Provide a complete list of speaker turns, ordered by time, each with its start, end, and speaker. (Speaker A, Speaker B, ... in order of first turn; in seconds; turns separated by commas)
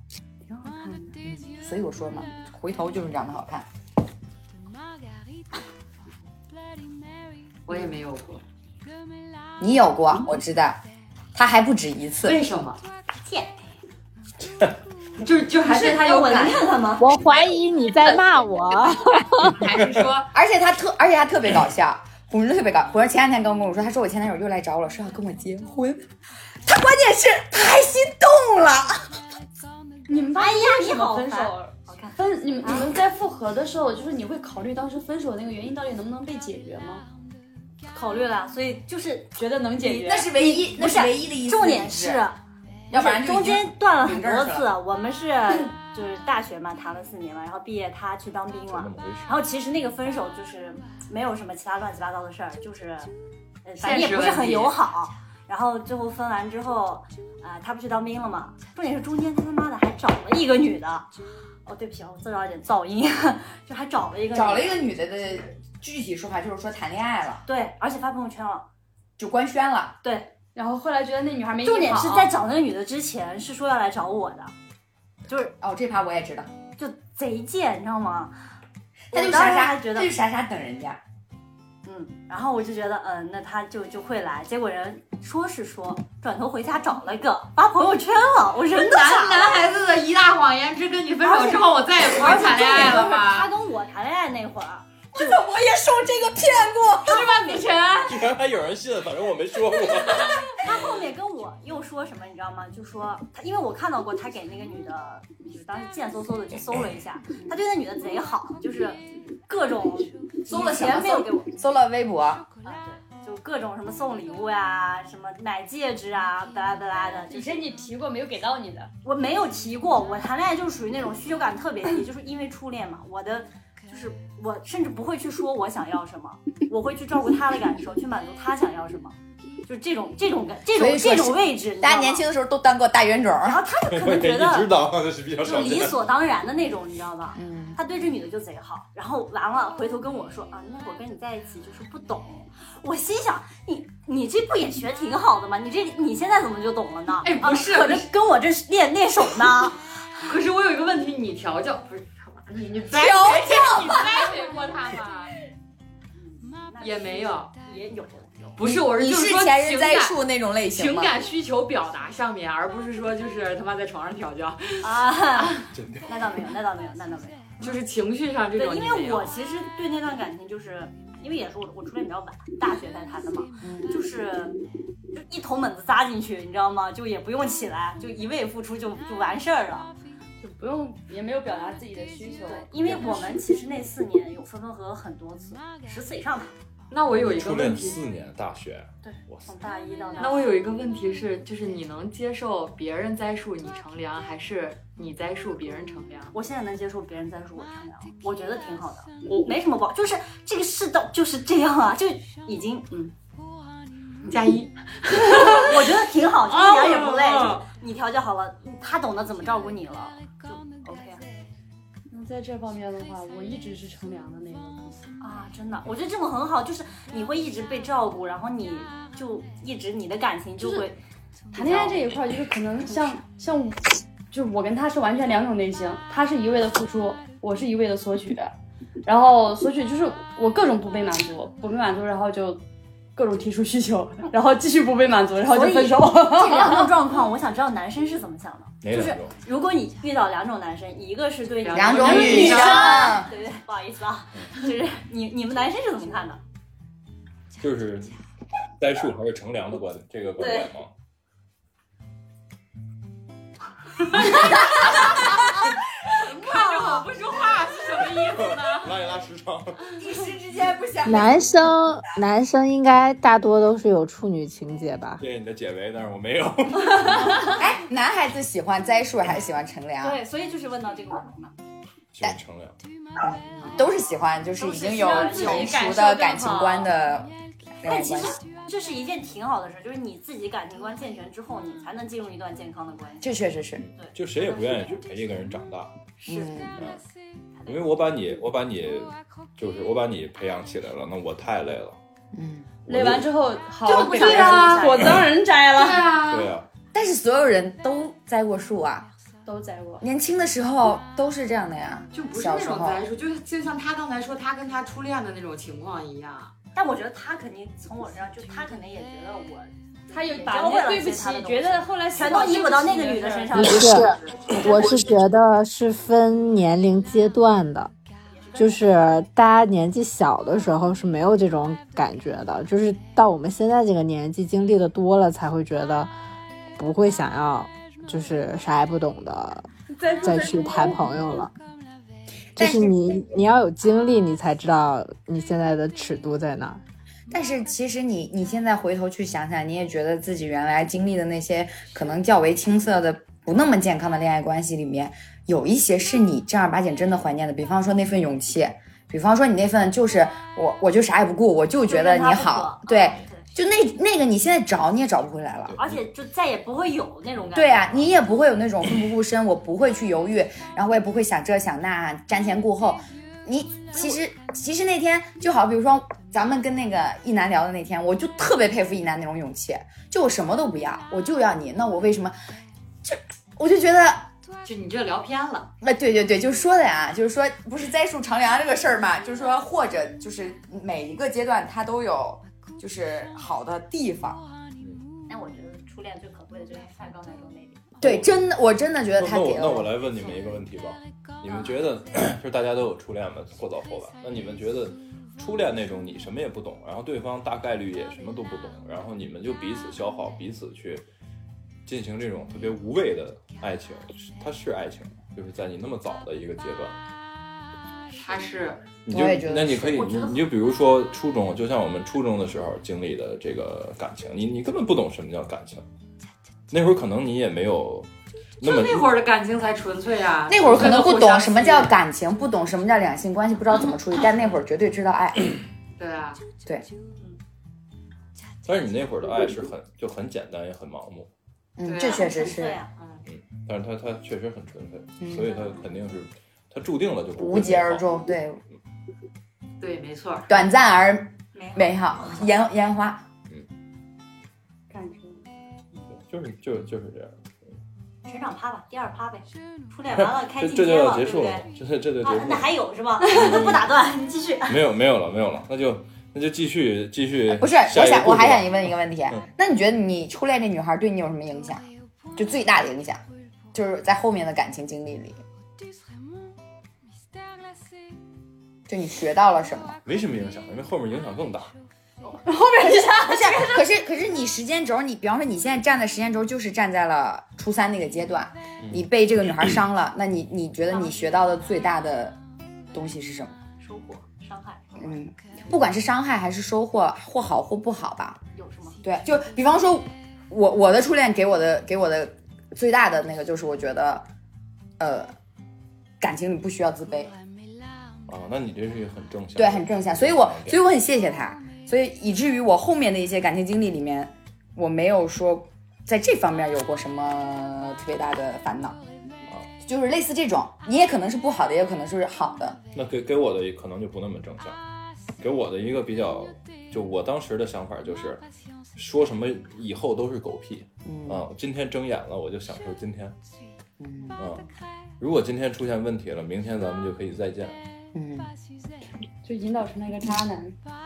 Speaker A: 0.5-1.2, Speaker B: 1.2-3.7, Speaker C: 7.7-8.4, Speaker B: 9.6-10.8, Speaker B: 11.3-12.4, Speaker C: 12.2-12.8, Speaker D: 13.2-13.5, Speaker C: 15.2-16.8, Speaker D: 15.7-17.1, Speaker E: 17.0-19.6, Speaker C: 19.4-20.3, Speaker B: 20.3-26.1, Speaker B: 26.6-29.1, Speaker A: 30.1-37.0, Speaker D: 30.3-32.9, Speaker D: 37.9-39.3, Speaker A: 39.4-40.4, Speaker B: 39.8-42.2, Speaker D: 40.3-42.4, Speaker B: 42.9-44.7, Speaker D: 42.9-53.1, Speaker F: 48.7-49.4, Speaker D: 53.6-61.1, Speaker C: 53.8-54.8, Speaker D: 61.7-64.8, Speaker B: 64.3-67.4, Speaker D: 67.5-68.7, Speaker B: 69.2-70.0, Speaker D: 70.0-70.3, Speaker A: 70.5-72.3, Speaker D: 71.6-74.5, Speaker D: 75.3-75.5, Speaker B: 75.6-76.5, Speaker D: 76.8-78.3, Speaker D: 79.1-80.1, Speaker B: 79.1-81.0, Speaker D: 81.8-89.7, Speaker C: 88.7-93.5, Speaker D: 91.2-95.4, Speaker B: 95.2-97.2, Speaker C: 97.0-98.2, Speaker F: 98.1-100.4, Speaker D: 100.2-111.5, Speaker B: 110.5-112.5, Speaker D: 112.6-117.7, Speaker A: 117.3-118.9, Speaker D: 119.0-132.2, Speaker B: 130.7-133.6, Speaker D: 133.4-134.7, Speaker F: 133.9-136.0, Speaker D: 135.4-149.8, Speaker B: 137.3-137.8, Speaker C: 147.2-148.1, Speaker C: 150.3-155.3, Speaker B: 152.9-154.2, Speaker D: 156.1-158.6, Speaker C: 156.8-157.5, Speaker C: 158.6-160.2, Speaker B: 158.6-161.2, Speaker C: 160.7-165.5, Speaker D: 164.8-167.8, Speaker F: 165.7-166.1, Speaker C: 167.6-169.3, Speaker D: 168.6-174.6, Speaker B: 173.6-174.0, Speaker D: 175.1-179.9, Speaker A: 180.4-182.7, Speaker D: 182.5-186.5, Speaker C: 186.9-188.0, Speaker F: 187.1-189.5, Speaker D: 189.0-190.5, Speaker C: 190.2-196.3, Speaker D: 196.3-203.1, Speaker C: 204.3-205.8, Speaker D: 205.4-211.2, Speaker C: 206.4-207.7, Speaker A: 212.1-215.0, Speaker D: 215.2-221.0, Speaker D: 221.5-222.3, Speaker A: 221.5-228.5, Speaker D: 222.8-223.2, Speaker A: 229.1-232.6, Speaker A: 233.2-236.9, Speaker D: 235.4-246.4, Speaker F: 238.8-239.3, Speaker C: 241.6-243.2, Speaker B: 241.7-243.3, Speaker F: 247.6-248.2, Speaker F: 248.8-250.9, Speaker D: 250.4-250.7, Speaker C: 254.2-255.5, Speaker D: 254.2-255.4, Speaker C: 256.1-258.9, Speaker D: 256.2-257.1, Speaker F: 258.2-259.8, Speaker B: 260.0-261.5, Speaker E: 261.1-265.2, Speaker F: 265.2-267.5, Speaker A: 267.1-267.5, Speaker B: 267.6-270.2, Speaker D: 270.0-271.6, Speaker F: 272.1-272.8, Speaker B: 273.2-278.4, Speaker D: 273.6-273.9, Speaker D: 274.6-275.8, Speaker A: 274.9-276.9, Speaker D: 277.9-283.3, Speaker B: 283.2-283.8, Speaker F: 283.8-286.0, Speaker D: 286.2-286.8, Speaker B: 286.3-286.8, Speaker F: 286.8-287.0, Speaker D: 287.6-288.0, Speaker F: 287.7-292.0, Speaker B: 292.3-292.7, Speaker F: 292.9-293.3, Speaker A: 292.9-296.1, Speaker D: 293.8-295.2, Speaker C: 293.9-294.9, Speaker C: 295.7-296.5, Speaker F: 296.3-296.7, Speaker B: 296.9-299.1, Speaker A: 299.5-300.1, Speaker B: 300.0-303.0, Speaker C: 302.1-306.5, Speaker D: 306.8-314.1, Speaker A: 310.1-313.5, Speaker E: 313.5-317.9, Speaker D: 318.4-319.0, Speaker E: 318.6-326.1, Speaker E: 326.8-329.7, Speaker A: 329.9-331.5, Speaker E: 330.2-331.5, Speaker B: 332.6-332.9, Speaker E: 332.6-336.8, Speaker B: 337.3-355.8, Speaker D: 351.9-353.5, Speaker F: 355.7-356.0, Speaker D: 355.8-358.1, Speaker B: 357.5-372.4, Speaker B: 373.0-374.3, Speaker C: 374.6-375.7, Speaker B: 375.8-384.4, Speaker D: 385.3-387.9, Speaker B: 388.0-389.9, Speaker F: 388.0-388.5, Speaker F: 389.2-401.1, Speaker D: 390.1-390.6, Speaker F: 401.9-407.0, Speaker C: 408.1-408.9, Speaker F: 409.1-415.9, Speaker B: 409.1-410.3, Speaker F: 416.7-418.1, Speaker F: 418.6-419.1, Speaker C: 418.6-421.9, Speaker B: 420.5-425.5, Speaker C: 426.0-426.4, Speaker F: 428.6-431.3, Speaker B: 431.8-432.8, Speaker C: 431.9-432.3, Speaker D: 432.0-432.9, Speaker C: 432.9-433.2, Speaker F: 433.3-438.2, Speaker B: 435.2-435.5, Speaker D: 435.5-435.9, Speaker B: 437.4-438.6, Speaker C: 439.8-440.5, Speaker B: 440.5-443.2, Speaker D: 441.5-442.5, Speaker A: 444.9-445.4, Speaker F: 446.1-447.8, Speaker D: 448.3-451.7, Speaker F: 450.1-453.9, Speaker D: 452.2-454.8, Speaker F: 454.7-459.4, Speaker B: 457.5-463.2, Speaker B: 463.7-465.4, Speaker B: 468.9-470.0, Speaker F: 470.1-471.7, Speaker A: 472.4-473.9, Speaker B: 473.0-482.4, Speaker B: 482.9-483.6, Speaker D: 483.8-485.2, Speaker B: 485.0-488.4, Speaker D: 488.6-489.0, Speaker B: 489.0-494.3, Speaker B: 495.0-495.3, Speaker B: 496.2-497.4, Speaker F: 498.3-500.8, Speaker B: 499.6-509.0, Speaker B: 509.8-512.8, Speaker F: 512.9-514.8, Speaker F: 515.4-518.4, Speaker F: 519.0-523.4, Speaker B: 521.0-521.4, Speaker B: 524.0-524.4, Speaker F: 524.4-524.7, Speaker F: 525.2-527.8, Speaker B: 528.1-528.5, Speaker A: 529.4-530.8